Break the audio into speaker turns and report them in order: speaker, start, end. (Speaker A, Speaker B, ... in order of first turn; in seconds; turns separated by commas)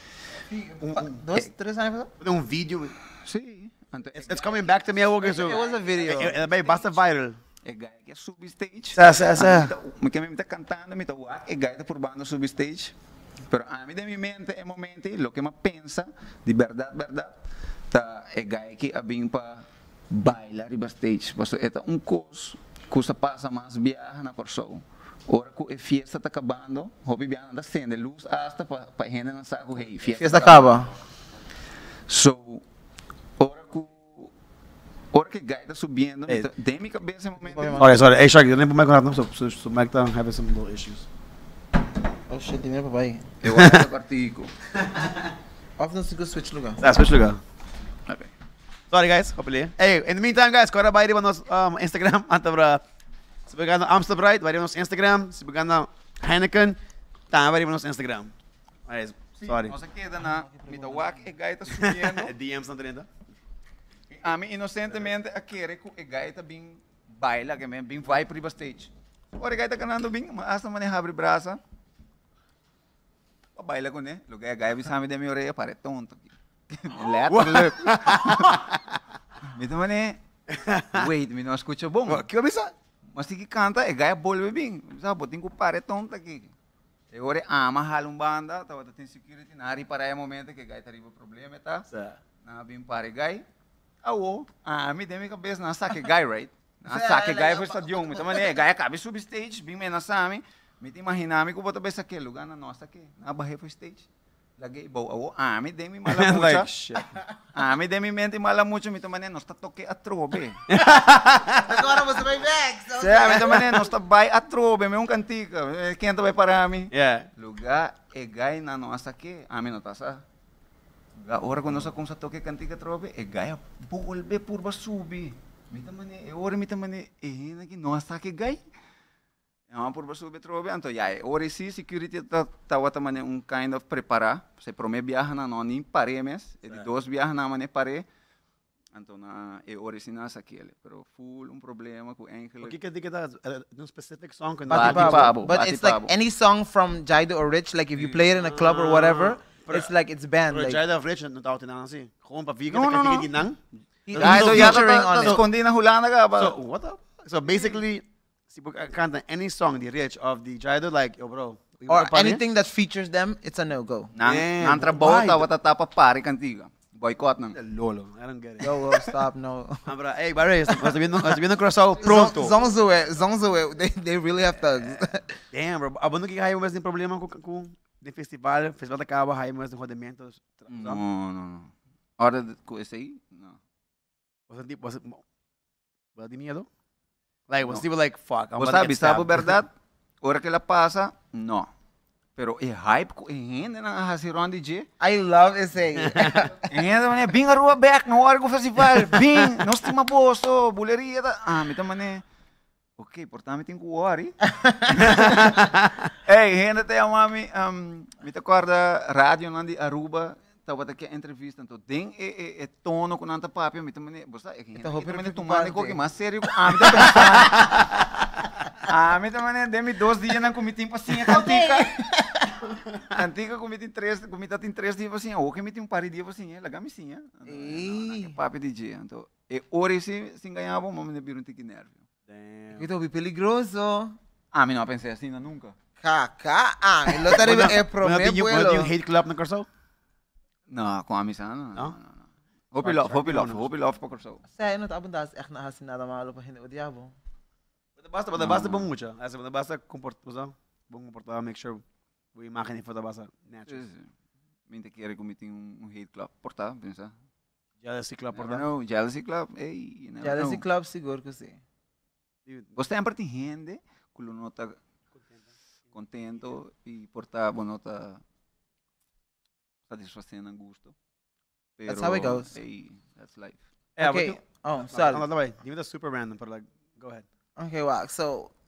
Speaker A: 0.5-2.1, Speaker B: 0.8-1.4, Speaker B: 2.2-3.0, Speaker C: 3.2-4.6, Speaker B: 4.1-7.4, Speaker A: 5.2-6.4, Speaker C: 7.6-12.9, Speaker B: 8.9-9.7, Speaker C: 13.5-17.4, Speaker C: 17.9-30.9, Speaker A: 30.1-30.9, Speaker C: 32.1-32.6, Speaker C: 33.4-34.3, Speaker C: 35.1-37.9, Speaker A: 37.4-37.9, Speaker B: 37.8-41.1, Speaker A: 42.3-43.3, Speaker C: 43.4-44.5, Speaker B: 43.5-43.9, Speaker B: 44.8-45.3, Speaker A: 45.8-46.8, Speaker B: 46.8-47.4, Speaker B: 48.9-52.8, Speaker B: 53.5-56.8, Speaker B: 57.3-58.3, Speaker B: 58.9-59.8, Speaker C: 59.4-62.3, Speaker A: 60.2-61.3, Speaker B: 61.7-63.1, Speaker C: 64.1-71.6, Speaker C: 73.6-78.6, Speaker B: 77.0-79.0, Speaker C: 79.4-80.2, Speaker B: 80.5-81.1, Speaker C: 80.9-82.3, Speaker B: 82.1-82.7, Speaker C: 83.1-86.5, Speaker C: 87.1-91.9, Speaker B: 91.9-92.2, Speaker C: 92.4-93.4, Speaker C: 94.0-104.1, Speaker A: 96.9-98.5, Speaker C: 104.6-106.7, Speaker B: 106.1-107.2, Speaker C: 107.5-110.6, Speaker B: 110.7-112.1, Speaker A: 111.6-113.5, Speaker C: 113.0-120.2, Speaker B: 113.3-113.9, Speaker B: 116.9-117.3, Speaker C: 121.2-128.6, Speaker C: 129.7-138.1, Speaker C: 138.9-142.8, Speaker B: 142.6-145.4, Speaker A: 144.7-150.8, Speaker C: 144.7-146.1, Speaker C: 148.0-148.3, Speaker B: 148.4-149.9, Speaker B: 150.5-155.5, Speaker C: 152.7-153.3, Speaker A: 154.1-155.4, Speaker C: 154.2-156.6, Speaker B: 156.4-162.4, Speaker A: 161.9-164.1, Speaker C: 164.1-167.6, Speaker B: 164.2-165.5, Speaker B: 167.5-168.7, Speaker A: 168.6-169.9, Speaker B: 169.9-172.6, Speaker A: 172.0-175.4, Speaker B: 175.5-181.0, Speaker C: 180.7-183.6, Speaker B: 184.5-185.2, Speaker B: 186.2-186.7, Speaker B: 187.5-189.6, Speaker C: 188.6-189.7, Speaker C: 190.2-191.7, Speaker C: 192.4-194.9, Speaker A: 195.0-196.6, Speaker B: 196.0-196.5, Speaker C: 196.6-202.2, Speaker C: 203.0-205.6, Speaker A: 204.5-205.5, Speaker B: 205.1-206.1, Speaker C: 206.2-217.8, Speaker A: 214.8-216.0, Speaker A: 216.8-217.1, Speaker C: 218.8-222.0, Speaker A: 221.2-222.6, Speaker C: 223.0-232.1, Speaker A: 227.5-228.3, Speaker B: 232.3-232.9, Speaker A: 232.8-234.2, Speaker C: 234.5-235.8, Speaker A: 236.0-238.9, Speaker B: 237.3-239.7, Speaker C: 240.7-244.4, Speaker B: 242.8-243.7, Speaker A: 244.5-247.1, Speaker B: 248.0-251.8, Speaker C: 248.4-248.9, Speaker B: 252.3-253.8, Speaker C: 253.7-254.1, Speaker C: 254.7-257.1, Speaker B: 257.8-258.7, Speaker C: 258.4-260.6, Speaker A: 260.2-261.6, Speaker C: 262.8-264.8, Speaker B: 265.2-265.5, Speaker C: 265.9-268.2, Speaker C: 269.9-270.9, Speaker C: 271.8-273.6, Speaker A: 271.9-272.5, Speaker B: 274.0-277.3, Speaker A: 274.0-275.3, Speaker A: 277.6-278.5